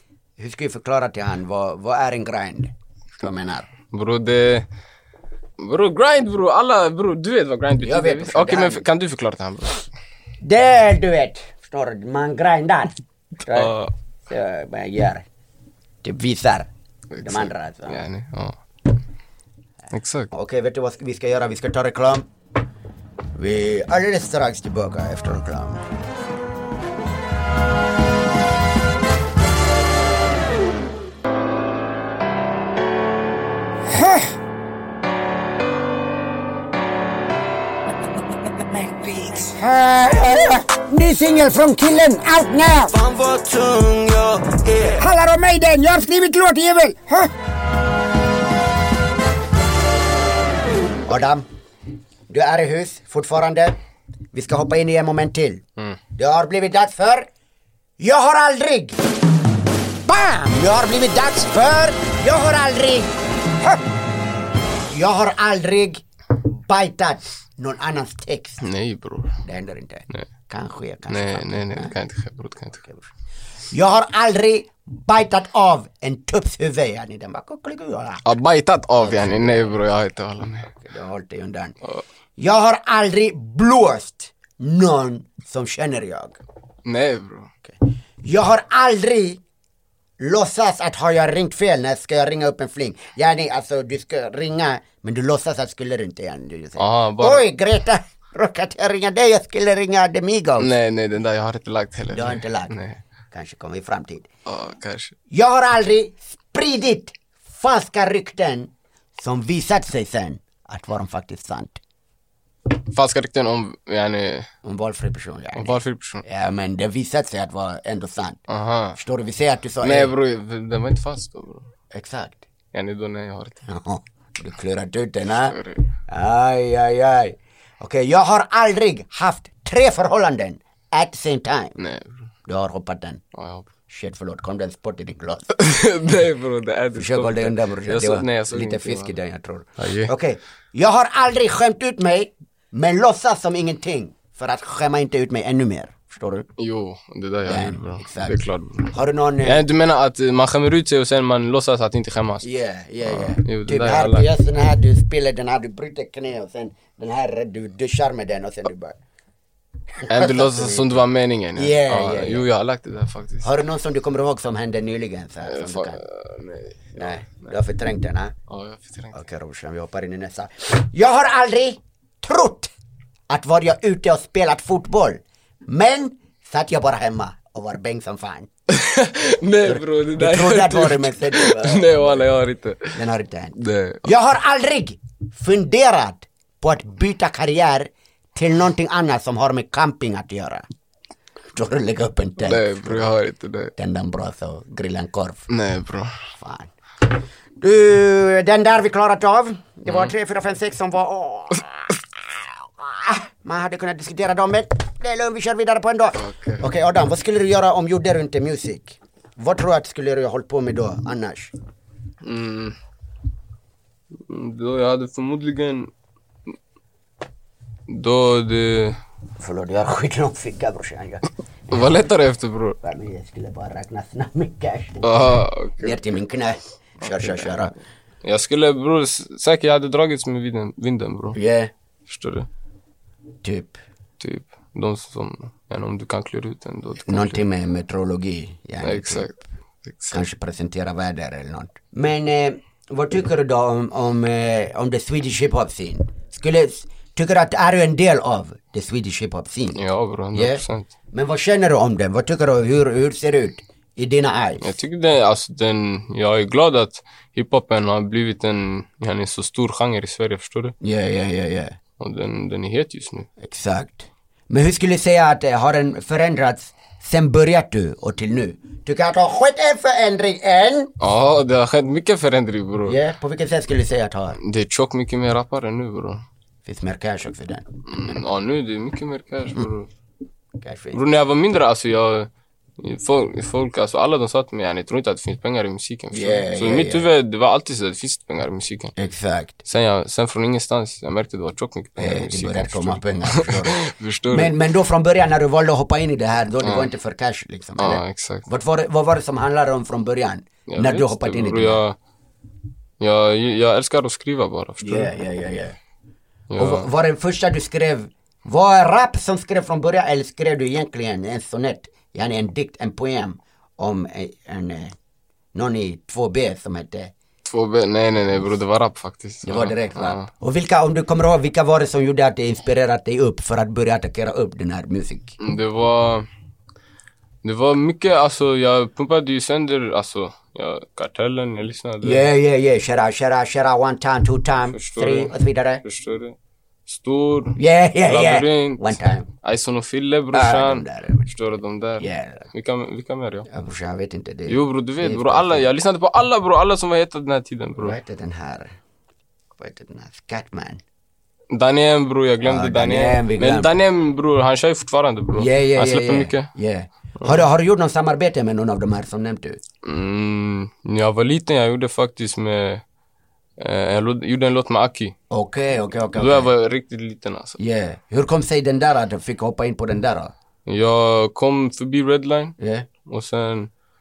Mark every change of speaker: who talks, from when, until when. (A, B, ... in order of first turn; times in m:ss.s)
0:00.4-0:03.7 A
0:03.9-0:04.7 B
0:05.6-0:09.8 B
0:07.8-0:08.8 A
0:10.4-0:15.2 A
0:13.5-0:13.9 B
0:16.0-0:16.7 A
0:17.1-0:18.6 B
0:17.2-0:18.0 A
0:19.9-0:20.3 B
0:20.3-0:22.2 A
0:23.3-0:25.8 A
0:33.9-0:34.3 A
0:38.9-0:39.3 C
0:39.3-0:42.9 A
0:42.9-0:45.0 C
0:44.9-0:47.3 A
0:51.1-0:51.4 A
0:52.3-0:53.8 A
0:54.3-0:55.6 A
0:56.2-0:57.3 A
0:58.0-0:59.0 A
1:00.0-1:03.8 A
1:04.9-1:08.6 A
1:08.6-1:09.4 B
1:09.4-1:11.9 A
1:11.1-1:12.8 B
1:12.8-1:13.1 A
1:13.7-1:18.3 A
1:18.2-1:20.7 B
1:19.0-1:19.7 A
1:20.8-1:21.8 A
1:22.4-1:26.4 A
1:26.8-1:27.5 B
1:27.7-1:29.4 A
1:30.2-1:40.7 A
1:36.8-1:37.5 B
1:40.6-1:43.0 B
1:42.1-1:42.8 A
1:43.3-1:44.2 A
1:44.4-1:45.1 B
1:45.3-1:51.8 A
1:52.7-1:54.5 B
1:54.6-1:58.4 A
1:55.5-1:56.2 B
1:58.5-1:59.0 B
1:59.0-2:00.1 A
1:59.8-2:01.7 B
2:01.9-2:02.4 A
2:02.7-2:03.6 B
2:03.7-2:11.8 A
2:05.4-2:05.8 B
2:11.8-2:12.2 B
2:12.5-2:13.2 A
2:13.3-2:13.7 B
2:13.9-2:15.5 A
2:15.5-2:19.2 B
2:16.9-2:26.5 A
2:19.8-2:20.1 B
2:26.6-2:32.5 B
2:27.4-2:29.6 A
2:32.4-2:39.0 A
2:33.0-2:34.3 B
2:40.0-2:41.0 A
2:40.1-2:43.5 B
2:41.6-2:42.4 A
2:43.4-2:46.0 A
2:45.4-2:47.5 B
2:46.9-2:48.3 A
2:48.5-2:49.1 B
2:49.1-2:52.7 A
2:53.3-2:58.5 A
2:58.7-3:03.0 B
2:59.6-3:02.3 A
3:02.9-3:10.6 A
3:03.6-3:04.0 B
3:11.5-3:13.0 A
3:12.4-3:13.7 B
3:13.8-3:15.5 A
3:15.5-3:16.1 B
3:16.4-3:16.7 A
3:17.6-3:22.0 A
3:19.9-3:20.1 B
3:22.8-3:31.5 A
3:26.2-3:26.6 B
3:32.2-3:32.8 B
3:34.2-3:35.9 B
3:37.9-3:39.0 B
3:39.4-3:41.9 A
3:41.7-3:42.8 B
3:42.8-3:47.7 A
3:45.0-3:46.0 B
3:47.0-3:47.7 B
3:48.2-3:51.4 B
3:51.3-3:51.7 A
3:52.1-3:52.5 B
3:53.4-3:53.8 A
3:54.2-3:57.4 B
3:57.0-3:59.3 A
3:58.8-4:00.2 B
4:00.1-4:09.8 A
4:09.8-4:10.9 B
4:10.3-4:14.7 A
4:14.6-4:20.8 B
4:20.8-4:21.8 A
4:22.0-4:23.3 B
4:23.4-4:30.9 A
4:31.0-4:33.0 B
4:32.8-4:34.4 A
4:34.4-4:36.2 B
4:36.6-4:37.7 A
4:37.9-4:39.9 B
4:40.6-4:41.0 A
4:40.9-4:48.9 B
4:46.1-4:47.1 A
4:49.0-4:49.6 A
4:49.6-4:54.5 B
4:52.0-5:01.8 A
4:56.6-4:56.9 B
4:57.8-4:58.5 B
5:00.7-5:02.0 B
5:03.0-5:05.1 B
5:04.8-5:05.8 A
5:06.5-5:06.9 B
5:06.6-5:14.9 A
5:15.5-5:17.1 A
5:17.4-5:20.3 B
5:19.4-5:25.4 A
5:25.4-5:26.3 B
5:27.4-5:32.3 B
5:32.0-5:35.8 A
5:34.7-5:43.5 B
5:37.6-5:39.3 A
5:40.3-5:41.3 A
5:42.0-5:42.5 A
5:43.5-5:45.6 A
5:44.5-5:48.0 B
5:47.8-5:48.7 A
5:49.6-5:50.8 A
5:51.5-5:56.5 B
5:52.4-5:53.7 A
5:55.4-5:59.6 A
5:59.8-6:02.8 B
6:03.6-6:05.2 B
6:05.3-6:06.5 A
6:06.2-6:07.6 B
6:07.6-6:10.3 A
6:10.6-6:13.7 B
6:12.6-6:12.9 A